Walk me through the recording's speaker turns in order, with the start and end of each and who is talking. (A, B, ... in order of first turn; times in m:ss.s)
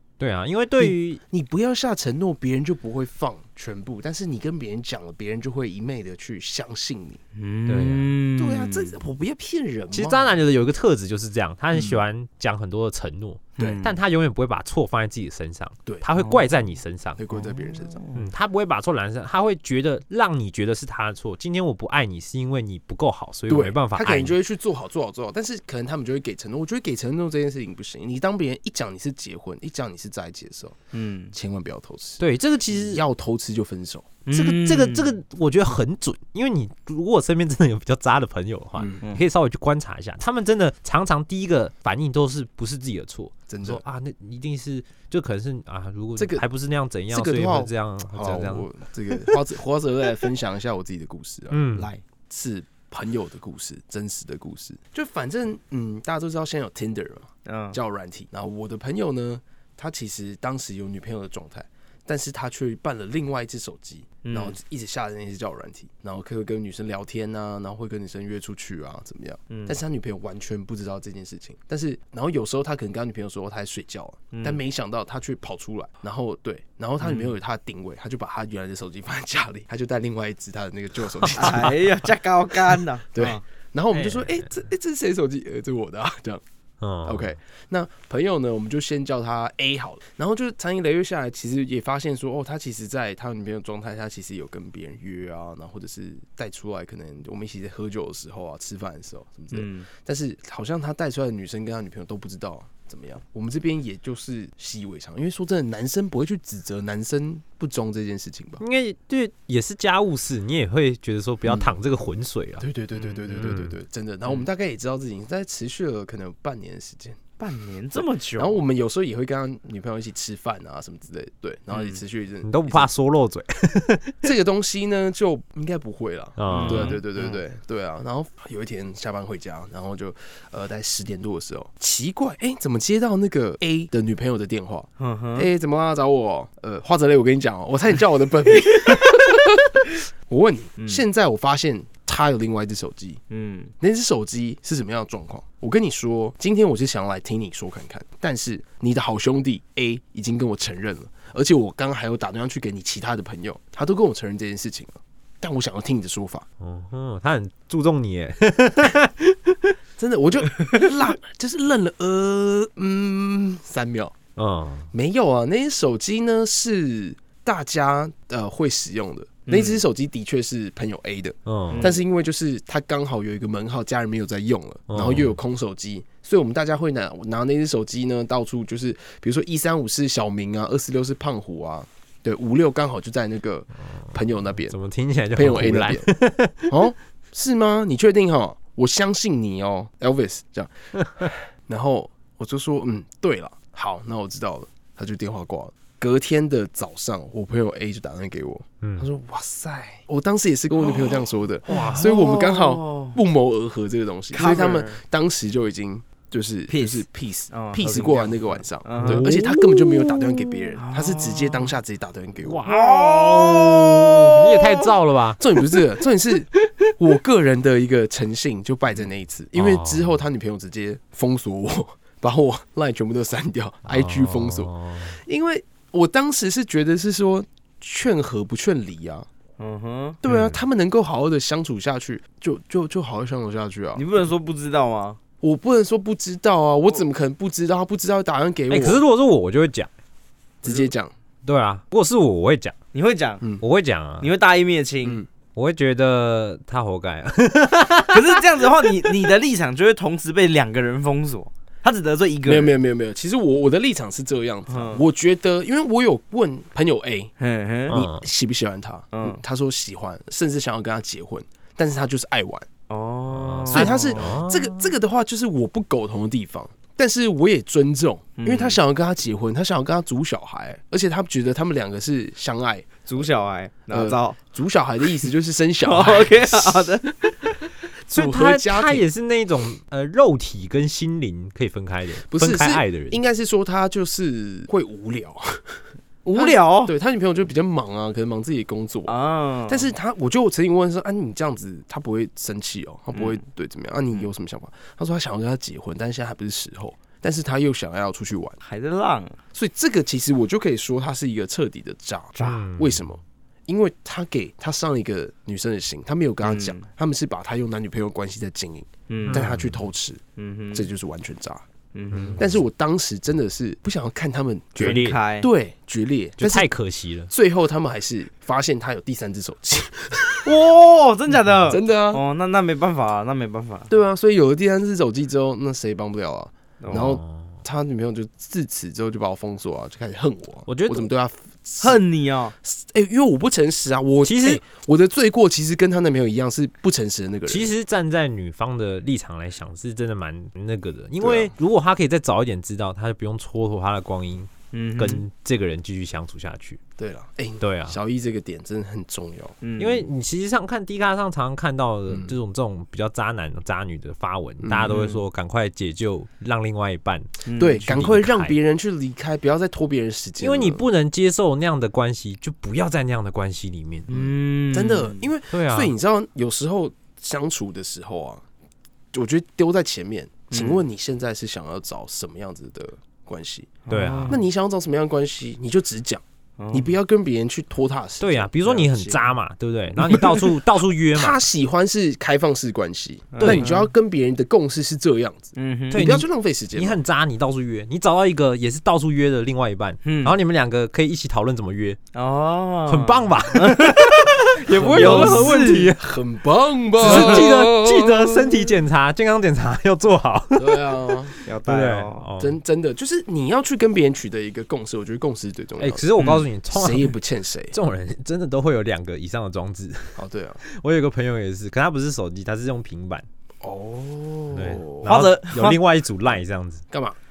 0:00.2-0:01.2 A
0:00.8-0:07.2 B
0:07.4-0:09.0 C
0:07.7-0:08.1 A
0:08.4-0:10.4 B
0:09.9-0:17.2 A
0:11.7-0:12.0 B
0:13.6-0:14.0 C
0:16.2-0:16.4 C
0:17.2-0:18.0 B
0:17.3-0:18.3 C
0:18.1-0:24.4 A
0:23.5-0:30.8 B
0:30.9-0:31.3 C
0:31.3-0:34.1 B
0:32.2-0:33.0 A
0:34.3-0:35.1 C
0:34.3-0:48.7 A
0:38.8-0:39.0 B
0:43.5-0:43.8 B
0:46.2-0:46.4 B
0:47.1-0:51.6 B
0:51.5-0:51.9 A
0:51.8-0:52.0 C
0:52.3-1:21.8 B
0:57.5-0:57.8 C
1:04.2-1:04.6 C
1:09.5-1:09.8 C
1:14.3-1:14.6 C
1:17.0-1:17.3 C
1:21.3-1:23.4 C
1:21.4-1:21.7 A
1:23.1-1:26.4 B
1:23.9-1:24.5 A
1:26.8-1:27.4 A
1:27.0-1:48.6 B
1:39.5-1:39.9 C
1:48.6-1:52.6 A
1:51.5-1:51.7 B
1:52.6-1:57.2 B
1:53.3-1:53.7 A
1:57.4-1:58.6 C
1:58.4-2:02.9 B
2:02.4-2:04.2 A
2:04.2-2:23.2 B
2:06.4-2:07.0 A
2:06.5-2:07.4 C
2:15.0-2:15.5 C
2:20.8-2:21.0 C
2:23.3-2:23.7 C
2:23.8-2:36.5 B
2:36.6-2:39.7 A
2:40.0-2:44.2 B
2:44.4-2:44.9 A
2:44.9-3:04.8 B
2:49.5-2:49.8 C
2:51.5-2:51.9 A
2:51.7-2:52.0 C
2:54.9-2:55.4 A
3:04.7-3:06.7 A
3:05.4-3:06.1 B
3:06.7-3:32.6 B
3:18.8-3:19.1 A
3:20.8-3:23.2 C
3:21.7-3:22.0 A
3:24.3-3:25.0 C
3:26.7-3:29.5 C
3:29.0-3:29.4 A
3:30.8-3:31.7 C
3:32.4-3:35.4 A
3:32.7-3:34.9 C
3:35.4-3:49.3 B
3:39.5-3:40.2 A
3:43.9-3:45.2 A
3:49.6-3:50.2 C
3:50.2-3:54.1 B
3:50.3-3:50.6 A
3:54.0-3:55.2 C
3:55.4-3:59.0 B
3:58.7-3:59.9 A
4:00.6-4:01.1 B
4:01.4-4:02.8 A
4:02.9-4:03.4 C
4:03.6-4:04.3 A
4:04.2-4:05.2 C
4:05.6-4:09.3 A
4:08.1-4:12.7 C
4:12.5-4:17.3 B
4:14.7-4:15.0 C
4:17.4-4:18.0 C
4:17.9-4:18.3 A
4:17.9-4:22.7 B
4:19.1-4:19.4 C
4:22.9-4:24.3 C
4:23.4-4:24.9 A
4:23.7-4:33.2 B
4:28.4-4:28.8 C
4:33.1-4:34.4 C
4:33.9-4:36.9 B
4:35.8-4:37.1 C
4:38.1-4:39.0 B
4:38.1-4:43.2 A
4:42.3-4:45.8 B
4:46.2-4:46.9 C
4:46.3-4:49.1 B
4:49.1-4:49.9 C
4:49.7-4:58.6 B
4:58.6-4:59.4 C
4:59.5-5:10.2 B
5:02.4-5:03.0 A
5:06.4-5:06.9 C
5:09.1-5:09.4 C
5:09.3-5:09.8 A
5:10.4-5:10.9 C
5:10.7-5:11.6 B
5:11.9-5:12.4 C
5:12.1-5:12.5 A
5:12.4-5:16.7 B
5:14.8-5:15.2 A
5:14.8-5:15.5 C
5:16.4-5:17.3 A
5:17.3-5:20.6 B
5:20.4-5:23.9 C
5:21.7-5:22.2 B
5:23.9-5:32.0 B
5:26.8-5:27.1 C
5:26.9-5:27.5 A
5:30.7-5:31.1 A
5:31.8-5:32.5 C
5:32.6-5:37.7 B
5:34.2-5:34.6 A
5:37.5-5:46.8 A
5:41.2-5:41.5 B
5:44.7-5:45.2 C
5:47.0-5:49.6 B
5:47.6-5:48.0 A
5:49.6-5:50.1 C
5:49.8-5:58.6 A
5:54.6-5:54.9 B
5:54.8-5:55.2 C
5:57.5-5:57.9 C
5:57.6-6:00.8 B
6:00.4-6:04.1 A
6:04.1-6:05.2 C
6:04.1-6:08.4 B
6:05.5-6:05.9 A
6:09.1-6:19.1 B
6:10.5-6:10.8 C
6:13.9-6:14.4 C
6:13.9-6:14.4 A
6:16.6-6:17.0 C
6:18.2-6:21.5 A
6:20.0-6:20.5 B
6:21.1-6:27.0 B
6:23.3-6:23.9 C
6:23.4-6:23.7 A
6:25.6-6:26.1 C
6:25.9-6:32.0 A
6:30.0-6:30.4 C
6:32.1-6:34.1 C
6:32.9-6:36.1 A
6:34.7-6:35.9 C
6:34.7-6:38.7 B
6:37.0-6:41.0 A
6:37.0-6:37.5 C
6:40.6-6:41.4 B
6:41.5-6:42.3 C
6:41.6-6:42.6 A
6:42.4-6:46.1 B
6:45.8-6:47.2 A
6:46.2-6:46.5 C
6:46.7-6:47.8 B
6:47.7-6:53.3 A
6:50.2-6:50.6 B
6:53.6-6:55.1 B
6:54.5-6:56.8 A
6:55.0-6:55.8 C
6:56.9-6:57.2 B